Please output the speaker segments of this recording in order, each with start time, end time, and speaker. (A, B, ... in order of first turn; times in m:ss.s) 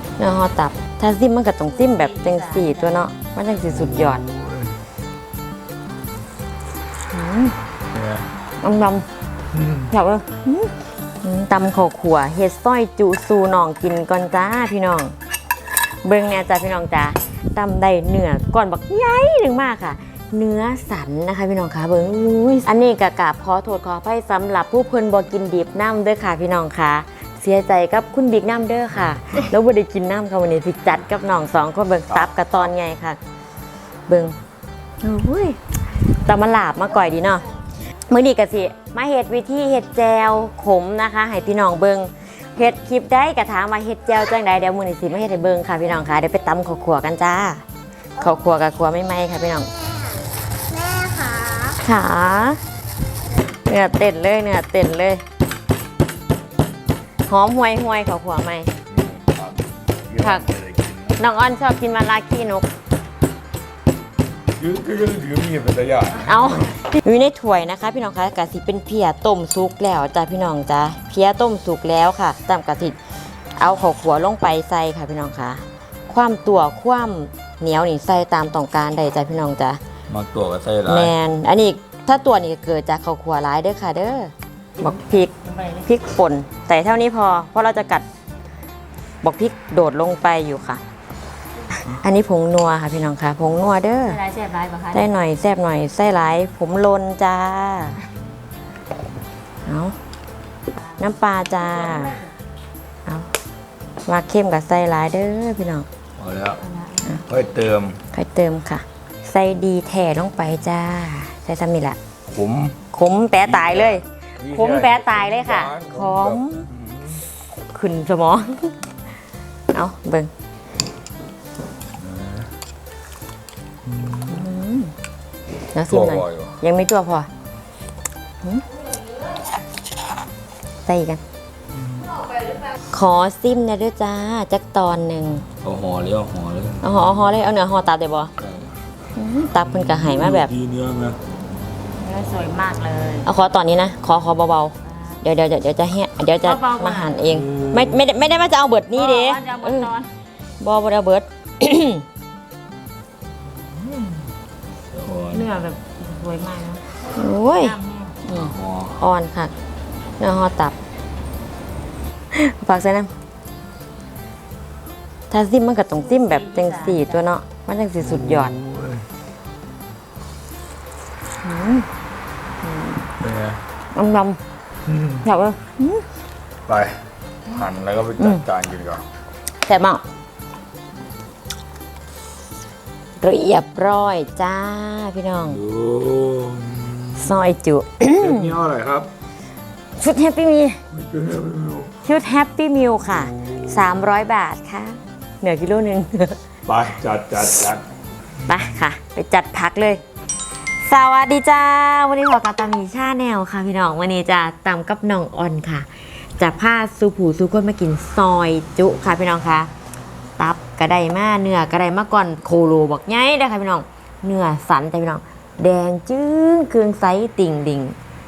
0:00.2-0:04.3 A
0:01.7-0:03.0 B
0:04.3-0:04.7 C
0:07.1-0:07.6 A
0:08.6-0:09.1 A
0:09.7-0:15.2 A
0:15.8-0:33.2 A
0:34.1-0:34.4 A
0:35.0-0:37.5 A
0:38.1-0:47.6 A
0:48.2-0:49.7 A
0:51.5-0:52.6 A
0:53.5-0:55.2 A
0:57.3-0:58.7 A
0:58.9-1:01.1 C
1:00.2-1:00.6 A
1:01.2-1:02.7 A
1:04.6-1:06.3 C
1:06.1-1:19.8 A
1:20.1-1:21.1 C
1:20.9-1:28.0 A
1:29.2-1:30.8 A
1:31.8-1:34.2 A
1:34.1-1:35.1 B
1:34.9-1:38.0 A
1:39.7-1:40.0 A
1:41.0-1:42.2 A
1:41.6-1:42.3 B
1:44.1-1:45.9 A
1:46.2-1:46.6 C
1:46.6-1:47.1 B
1:47.3-1:48.0 C
1:48.1-1:52.0 A
1:52.3-1:52.8 C
1:52.9-1:56.7 A
1:53.4-1:56.4 C
1:57.7-1:58.7 A
1:59.7-2:00.3 A
2:02.0-2:02.5 C
2:04.0-2:04.2 C
2:04.3-2:04.9 A
2:05.7-2:07.3 A
2:05.9-2:06.6 C
2:10.9-2:11.2 A
2:12.9-2:15.4 A
2:15.6-2:16.8 C
2:16.8-2:18.3 A
2:18.4-2:18.7 C
2:19.2-2:20.5 A
2:19.8-2:21.2 C
2:22.0-2:23.3 B
2:23.2-2:29.9 A
2:26.4-2:27.2 B
2:27.3-2:28.0 C
2:28.9-2:30.1 B
2:30.6-2:32.0 A
2:34.9-2:35.5 C
2:35.3-2:36.8 B
2:37.1-2:39.5 A
2:37.5-2:38.2 B
2:38.3-2:39.0 C
2:40.2-2:40.8 A
2:42.3-2:43.1 A
2:45.3-2:48.6 A
2:46.0-2:47.2 B
2:48.3-2:49.0 C
2:51.4-2:51.9 A
2:52.6-2:53.1 A
2:53.2-2:53.6 C
2:53.9-2:54.4 A
2:55.2-2:56.0 A
2:56.7-2:59.0 C
2:58.2-2:58.5 A
2:59.7-3:00.0 A
3:03.2-3:05.6 A
3:05.6-3:07.2 C
3:07.2-3:08.6 A
3:08.2-3:09.1 C
3:10.0-3:10.8 A
3:10.9-3:11.9 C
3:12.0-3:16.4 A
3:16.7-3:17.8 C
3:18.4-3:20.0 A
3:20.7-3:29.7 A
3:30.4-3:38.0 A